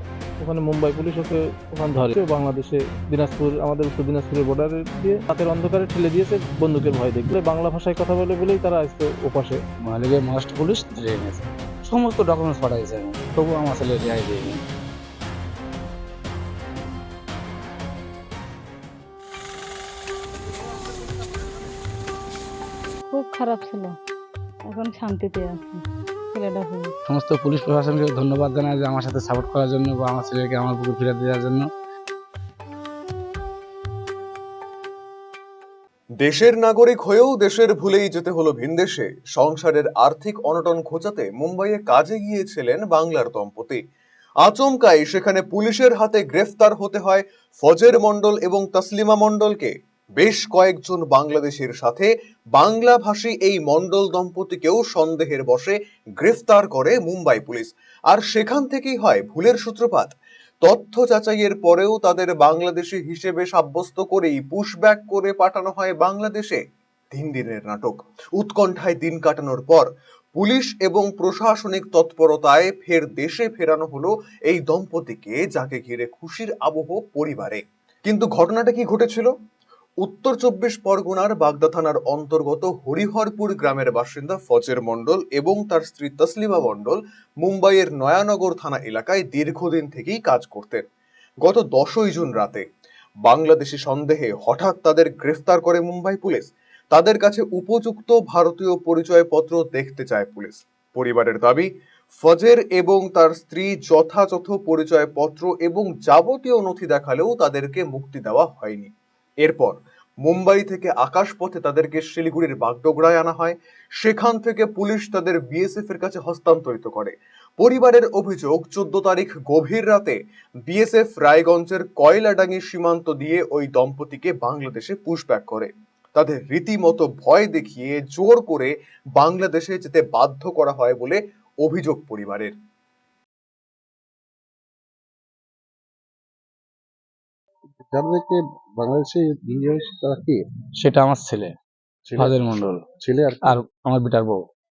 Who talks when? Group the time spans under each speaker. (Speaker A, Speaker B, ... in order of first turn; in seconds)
Speaker A: 0.4-9.6
Speaker B: 9.8-14.6, 27.1-31.7, 140.8-141.5, 142.2-142.8, 143.4-144.4
Speaker C: 23.1-23.9, 24.7-25.8, 26.3-26.9
Speaker D: 36.2-43.8, 44.4-60.1, 60.6-66.6, 67.1-79.3, 80.0-90.8, 91.4-92.6, 93.2-101.7, 102.2-108.9, 109.4-132.5
Speaker E: 137.8-140.4, 142.1-142.3, 143.0-143.5